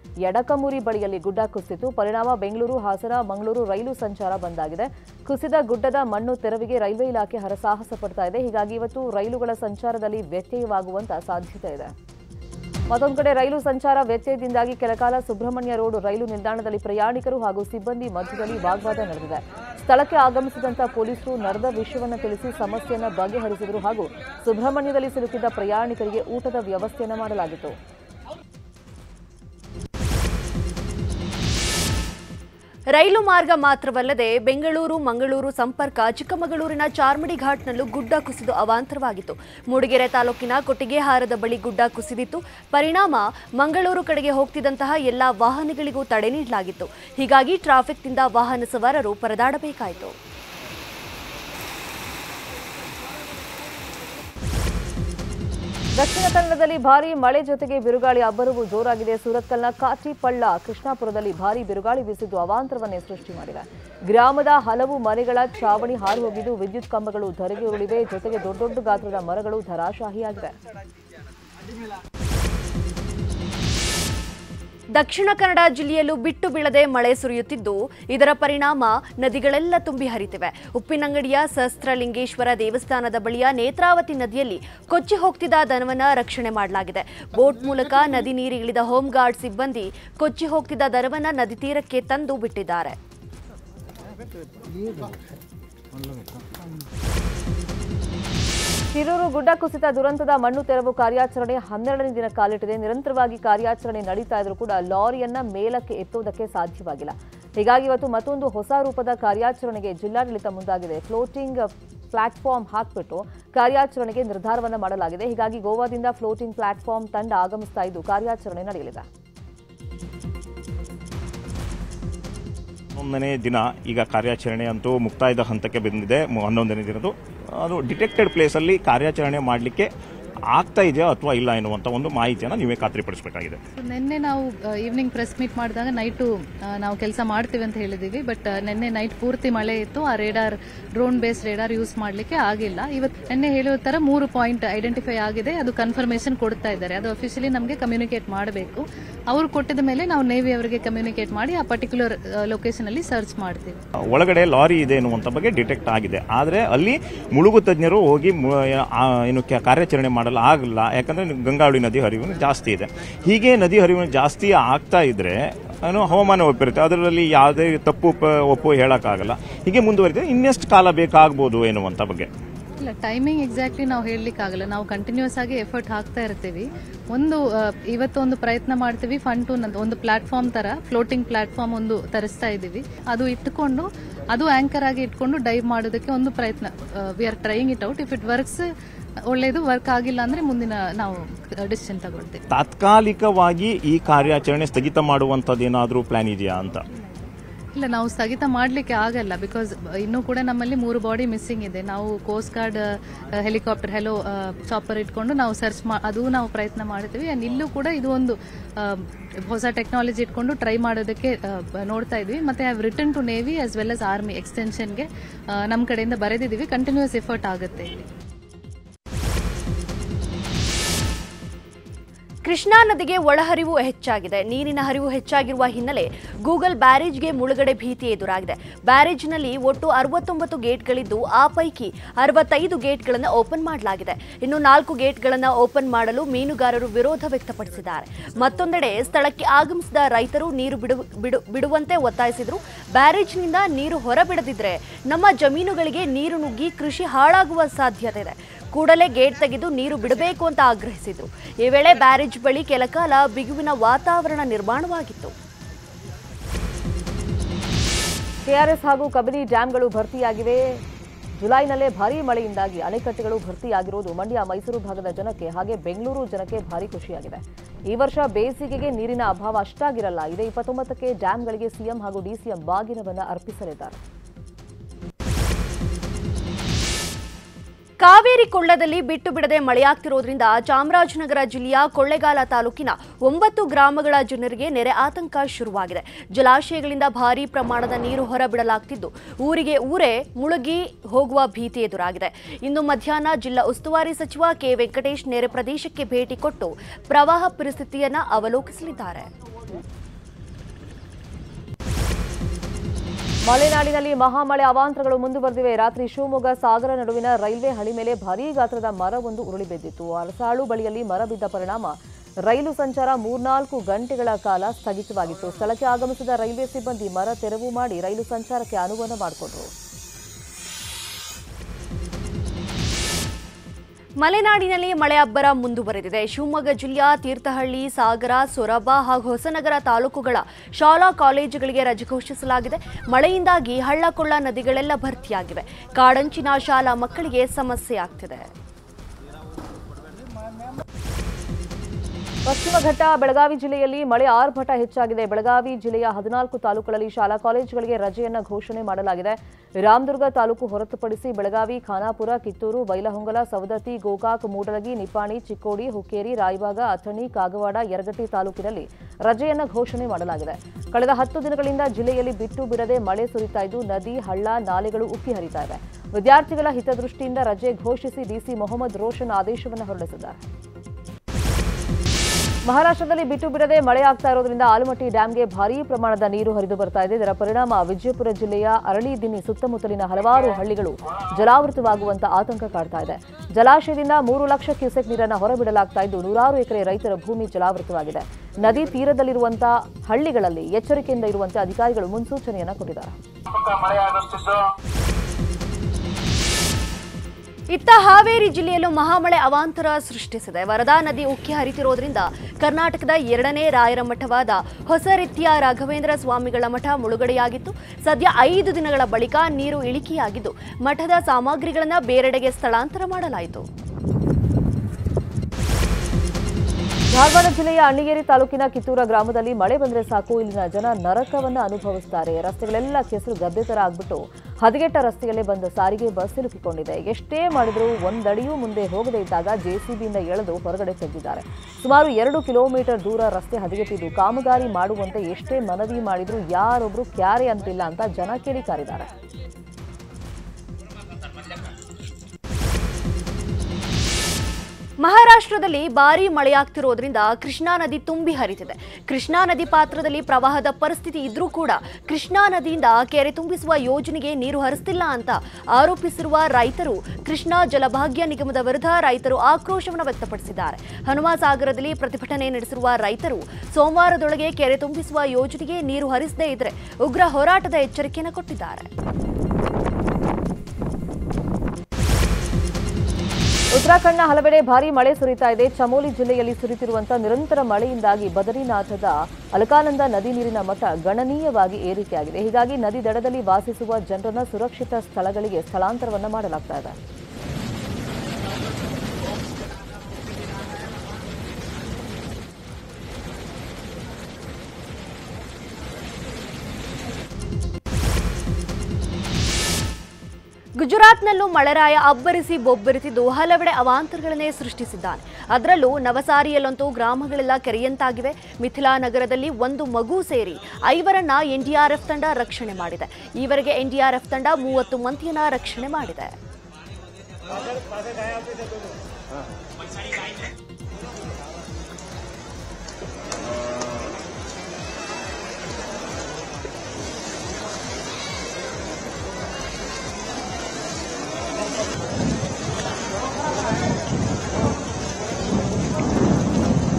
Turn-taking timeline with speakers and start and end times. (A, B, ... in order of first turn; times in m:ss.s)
0:00.3-0:11.9 A
0:12.9-0:27.8 A
0:33.0-0:50.1 B
0:56.0-1:10.5 A
1:15.0-1:33.0 B
1:38.9-1:59.0 A
2:03.0-2:09.9 C
2:10.5-2:13.6 C
2:13.8-2:16.3 D
2:16.8-2:33.8 D
2:34.1-2:52.3 C
2:52.8-2:57.4 D
2:57.9-3:08.6 D
3:09.3-3:11.2 D
3:11.7-3:12.4 D
3:12.5-3:16.8 C
3:17.8-3:22.8 D
3:23.4-3:35.1 D
3:35.7-3:38.0 D
3:42.4-4:15.3 B
4:18.5-4:20.8 A
4:21.4-4:34.0 A
4:38.0-4:59.3 B
5:03.5-5:19.7 A
5:24.2-5:38.5 B
5:42.5-6:10.4 A
6:12.7-6:33.1 A
6:37.7-6:53.7 B
6:57.1-7:19.1 A
7:25.0-7:48.9 B
7:53.8-8:07.0 A
8:20.8-8:36.3 B